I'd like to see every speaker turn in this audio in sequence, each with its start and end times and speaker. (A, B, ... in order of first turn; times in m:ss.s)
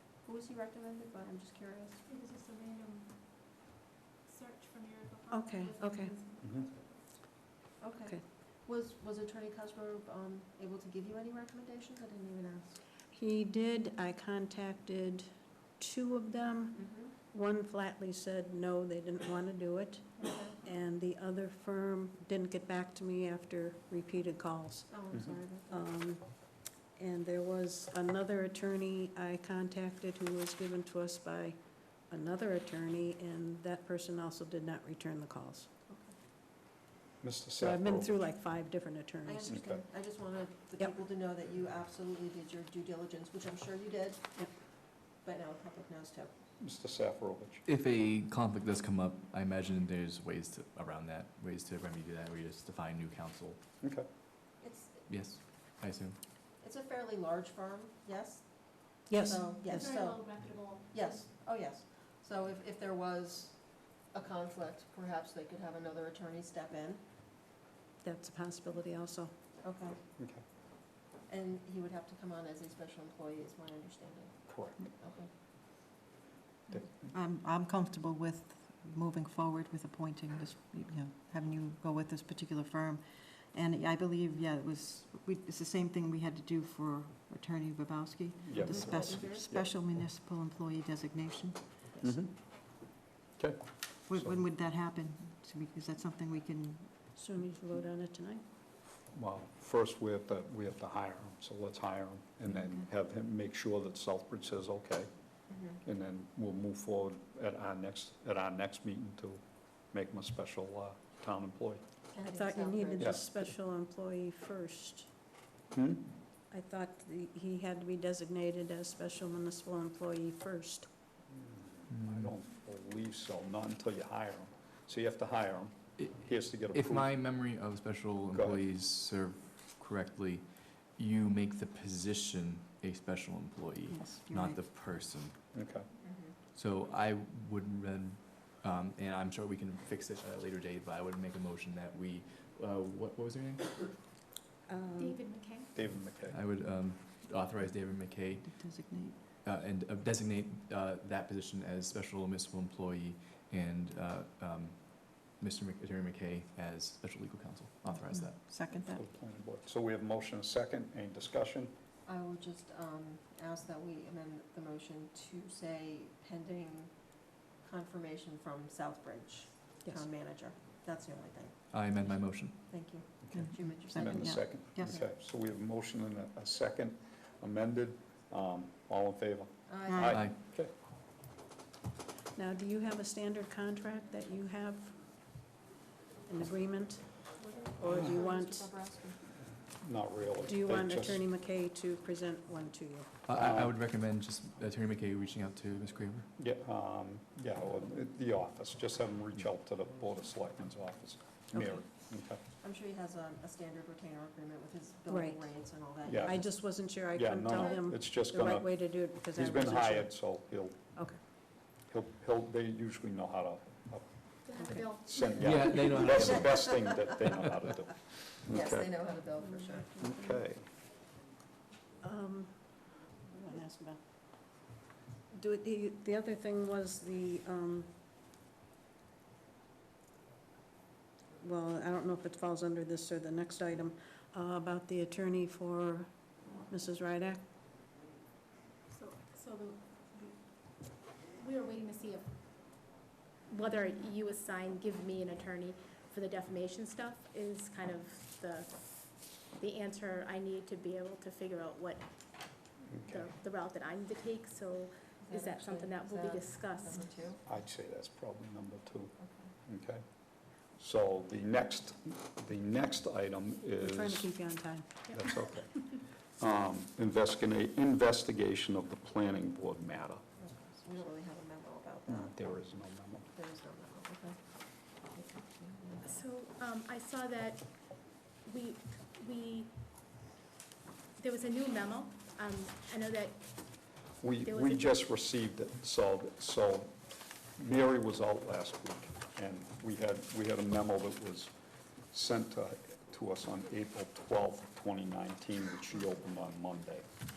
0:00.2-0:02.0 A
0:02.0-0:03.6 B
0:04.2-0:07.2 B
0:05.3-0:06.1 C
0:07.8-0:12.8 A
0:13.1-0:24.9 C
0:16.7-0:17.1 A
0:20.2-0:20.6 A
0:24.9-0:25.8 A
0:25.7-0:26.2 C
0:27.0-0:35.7 C
0:35.9-0:36.1 A
0:37.2-0:38.1 D
0:37.6-0:39.5 C
0:39.2-0:44.3 A
0:39.5-0:39.8 D
0:45.2-0:46.3 A
0:46.6-0:47.6 D
0:47.6-0:53.6 E
0:54.6-0:55.1 A
0:55.1-0:56.2 E
0:56.6-1:07.0 A
0:59.1-0:59.9 C
0:59.6-1:01.2 B
1:08.0-1:09.3 C
1:09.6-1:10.0 A
1:11.3-1:15.3 A
1:14.5-1:14.9 D
1:17.1-1:32.2 F
1:28.4-1:29.7 D
1:28.6-1:29.5 A
1:32.0-1:32.5 D
1:33.4-1:34.4 D
1:34.1-1:36.9 F
1:37.1-1:38.4 C
1:39.1-1:45.1 D
1:42.5-1:42.8 F
1:45.5-1:45.8 A
1:45.8-1:51.8 D
1:52.1-1:53.2 A
1:52.3-1:55.1 C
1:53.0-1:53.3 D
1:55.7-1:56.0 D
1:56.5-2:00.9 C
2:01.3-2:07.1 D
2:01.9-2:02.3 E
2:06.7-2:15.4 E
2:08.3-2:08.6 D
2:13.9-2:14.6 F
2:15.5-2:15.9 D
2:16.0-2:16.3 A
2:16.5-2:24.0 E
2:24.7-2:25.2 C
2:25.0-2:25.8 B
2:25.7-2:26.4 D
2:26.0-2:28.8 E
2:28.4-2:29.2 F
2:29.4-2:38.4 E
2:37.9-2:39.0 F
2:38.8-2:41.7 D
2:42.0-2:46.9 A
2:47.6-2:55.1 A
2:51.7-2:52.6 E
2:53.2-3:00.7 D
2:53.3-2:55.0 F
2:59.7-3:00.2 A
2:59.9-3:00.3 F
3:02.4-3:05.4 C
3:06.3-3:08.7 C
3:07.4-3:09.2 A
3:09.6-3:11.3 D
3:10.4-3:13.1 C
3:13.2-3:16.3 E
3:13.3-3:13.8 D
3:16.4-3:22.4 D
3:21.5-3:21.8 C
3:22.6-3:26.4 A
3:25.1-3:25.5 C
3:26.1-3:26.4 D
3:26.1-3:30.1 C
3:27.1-3:30.8 D
3:27.5-3:27.8 A
3:31.9-3:38.9 D
3:34.4-3:35.4 B
3:34.6-3:34.8 C
3:35.4-3:36.7 E
3:35.4-3:37.1 A
3:38.5-3:39.9 A
3:39.4-3:40.4 C
3:40.0-3:40.6 D
3:42.0-3:44.0 C
3:45.3-3:47.9 C
3:51.4-3:56.1 C
3:56.7-3:57.4 C
3:58.9-4:03.0 B
4:03.5-4:17.3 B
4:12.9-4:13.3 D
4:15.2-4:17.4 A
4:17.4-4:20.0 D
4:19.2-4:19.5 A
4:20.7-4:24.3 D
4:23.8-4:24.9 C
4:25.1-4:30.2 D
4:25.2-4:25.9 B
4:30.4-4:32.3 A
4:32.1-4:33.3 D
4:33.3-4:36.2 A
4:36.0-4:39.8 B
4:41.2-4:45.1 B
4:44.2-4:47.0 D
4:47.6-4:51.5 D
4:52.1-4:57.1 D